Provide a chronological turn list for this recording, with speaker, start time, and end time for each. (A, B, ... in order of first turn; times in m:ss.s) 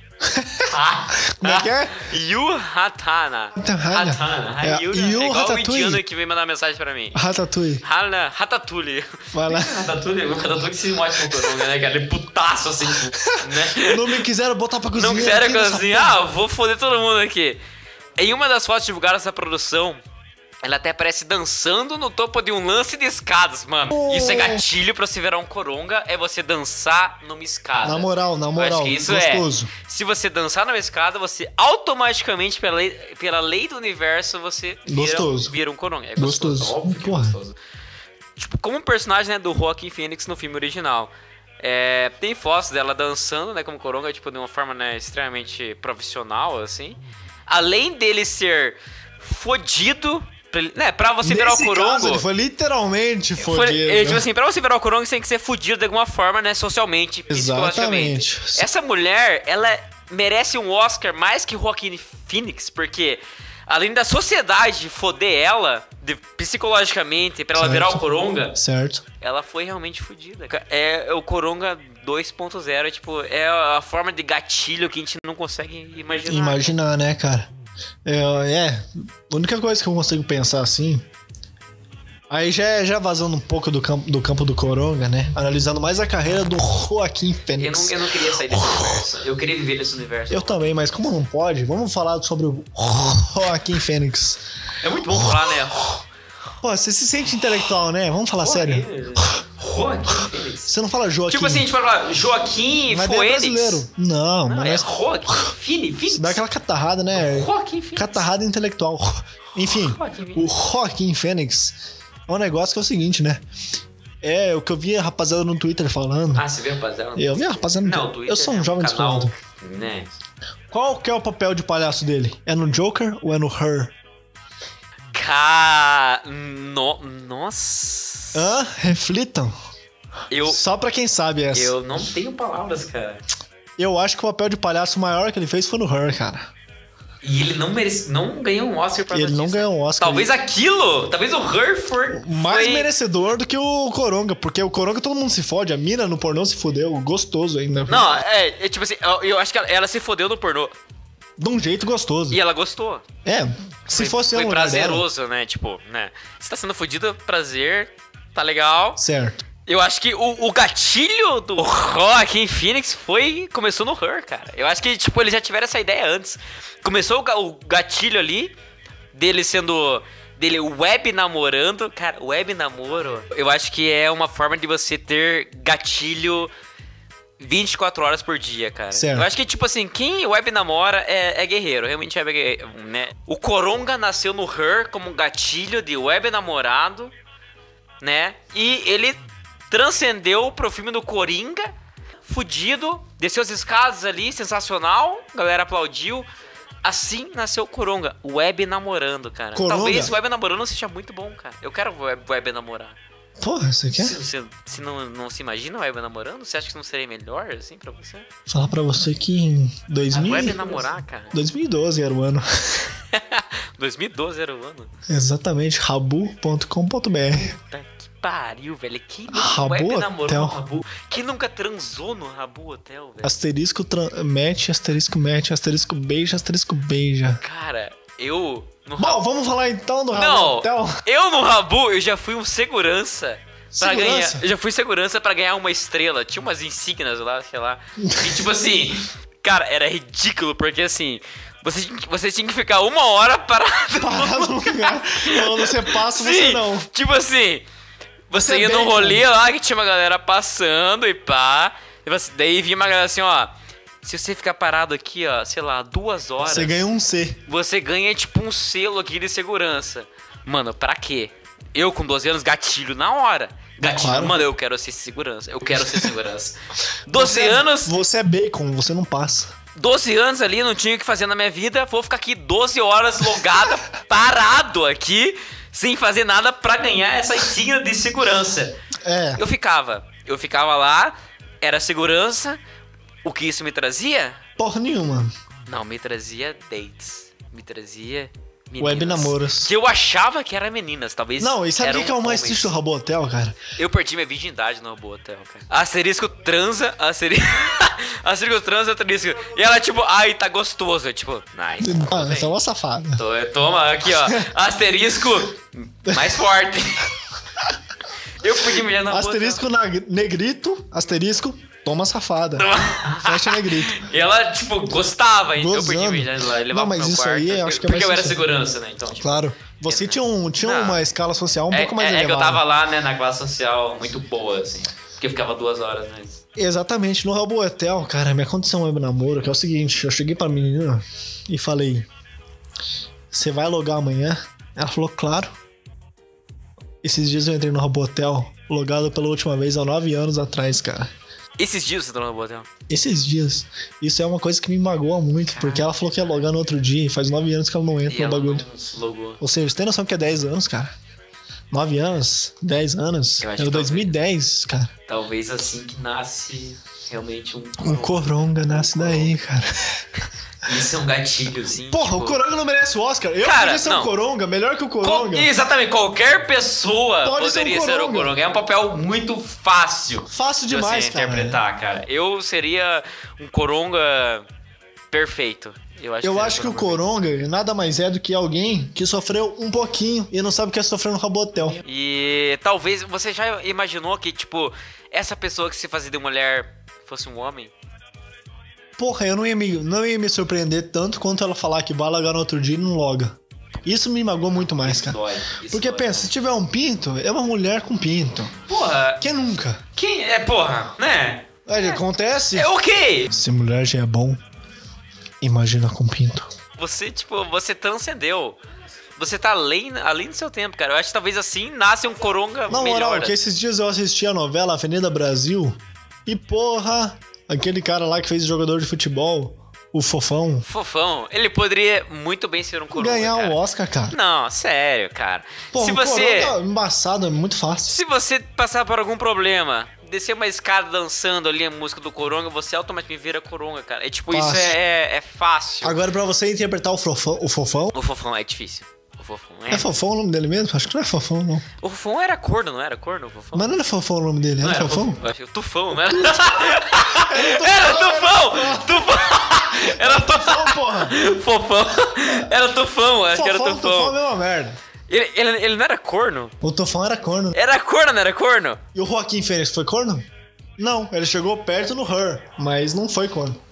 0:00.2-0:02.1 A
0:00.6-0:07.2 B
0:03.6-0:06.0 A
0:07.1-0:07.8 A
0:07.8-0:14.2 B
0:09.3-0:09.9 A
0:11.3-0:11.7 A
0:13.0-0:16.2 A
0:14.9-0:17.6 B
0:18.2-0:20.0 B
0:20.6-0:37.6 B
0:23.9-0:24.6 A
0:27.8-0:29.7 A
0:34.9-0:35.5 A
0:36.2-0:37.4 A
0:38.4-0:52.3 B
0:51.2-0:54.3 A
0:53.4-1:08.6 B
0:57.3-0:58.7 A
1:07.6-1:08.0 A
1:08.6-1:09.0 A
1:09.2-1:16.8 B
1:16.3-1:17.5 A
1:18.0-1:21.0 A
1:22.3-1:29.0 A
1:27.6-1:31.0 B
1:30.3-1:34.4 A
1:34.8-1:36.0 B
1:35.1-1:35.5 A
1:36.6-1:38.9 A
1:38.4-1:40.7 B
1:40.6-1:41.7 A
1:41.3-1:43.9 B
1:42.9-1:44.9 A
1:44.4-1:46.5 B
1:46.1-1:53.4 A
1:47.2-1:48.2 B
1:49.6-1:50.5 B
1:54.2-1:56.4 A
1:56.4-2:00.1 B
1:57.2-1:59.3 A
2:00.7-2:04.0 A
2:05.1-2:08.4 B
2:08.3-2:09.6 A
2:10.3-2:10.6 B
2:10.4-2:11.7 A
2:11.5-2:13.2 B
2:13.8-2:16.5 A
2:17.2-2:22.9 B
2:19.1-2:20.3 A
2:22.1-2:28.0 A
2:27.9-2:30.7 B
2:31.4-2:32.4 A
2:32.3-2:33.0 B
2:33.2-2:35.0 A
2:33.9-2:39.0 B
2:39.0-2:39.4 A
2:39.7-2:48.5 B
2:49.1-2:56.5 B
2:57.4-3:07.1 B
2:58.9-2:59.3 A
3:08.0-3:11.7 B
3:12.2-3:16.3 B
3:16.8-3:23.0 B
3:19.5-3:20.1 A
3:23.4-3:24.2 A
3:23.9-3:28.3 B
3:28.5-3:32.9 A
3:30.1-3:31.4 B
3:33.1-3:34.9 B
3:35.1-3:37.6 A
3:37.7-3:43.4 B
3:39.3-3:40.6 A
3:43.2-3:47.4 A
3:47.4-3:49.2 B
3:49.0-3:51.0 A
3:50.2-4:07.7 B
3:53.7-3:54.4 A
3:58.0-3:58.5 A
4:04.0-4:06.9 A
4:08.3-4:16.7 B
4:08.3-4:09.2 A
4:16.4-4:17.4 A
4:17.5-4:27.9 B
4:23.8-4:24.5 A
4:27.1-4:29.5 A
4:29.8-4:38.8 B
4:39.0-4:39.4 A
4:39.4-4:42.6 B
4:43.2-4:44.4 B
4:44.6-4:45.3 A
4:45.7-4:52.8 B
4:48.8-4:49.7 A
4:51.4-4:53.6 A
4:53.8-5:02.5 B
5:01.8-5:03.2 A
5:03.2-5:07.2 B
5:08.3-5:09.6 B
5:09.1-5:14.0 A
5:12.6-5:21.1 B
5:15.6-5:18.4 A
5:19.2-5:22.6 A
5:21.7-5:26.4 B
5:26.6-5:32.1 A
5:33.3-5:35.6 A
5:37.0-5:41.1 A
5:41.6-5:42.7 B
5:42.9-5:48.7 A
5:45.5-5:46.0 B
5:48.1-5:49.4 B
5:49.4-5:50.9 A
5:51.7-5:54.9 A
5:53.4-5:54.1 B
5:55.1-5:59.3 B
5:57.8-6:00.1 A
6:00.6-6:02.4 B
6:01.9-6:05.5 A
6:03.4-6:04.1 B
6:05.0-6:14.5 B
6:07.2-6:08.4 A
6:10.3-6:11.6 A
6:15.1-6:17.0 B
6:16.2-6:21.8 A
6:21.8-6:27.7 B
6:29.0-6:38.5 A
6:34.6-6:36.3 B
6:38.7-6:39.2 B
6:39.2-6:39.8 A
6:40.0-6:42.0 B
6:41.7-6:42.7 A
6:42.5-6:43.3 B
6:43.3-6:44.4 A
6:45.4-6:46.5 A
6:46.8-6:48.6 B
6:49.2-6:53.4 B
6:52.7-7:00.7 A
7:00.6-7:03.6 B
7:02.9-7:04.2 A
7:04.1-7:06.6 B
7:05.7-7:08.0 A
7:07.9-7:16.0 B
7:14.3-7:14.8 A
7:15.8-7:17.9 A
7:17.9-7:19.9 B
7:19.7-7:21.7 A
7:21.8-7:23.7 B
7:23.5-7:25.2 A
7:24.6-7:34.2 B
7:25.9-7:29.2 A
7:29.7-7:31.2 A
7:33.3-7:34.8 A
7:35.1-7:36.6 B
7:36.6-7:37.6 A
7:37.5-7:38.8 B
7:38.9-7:43.6 A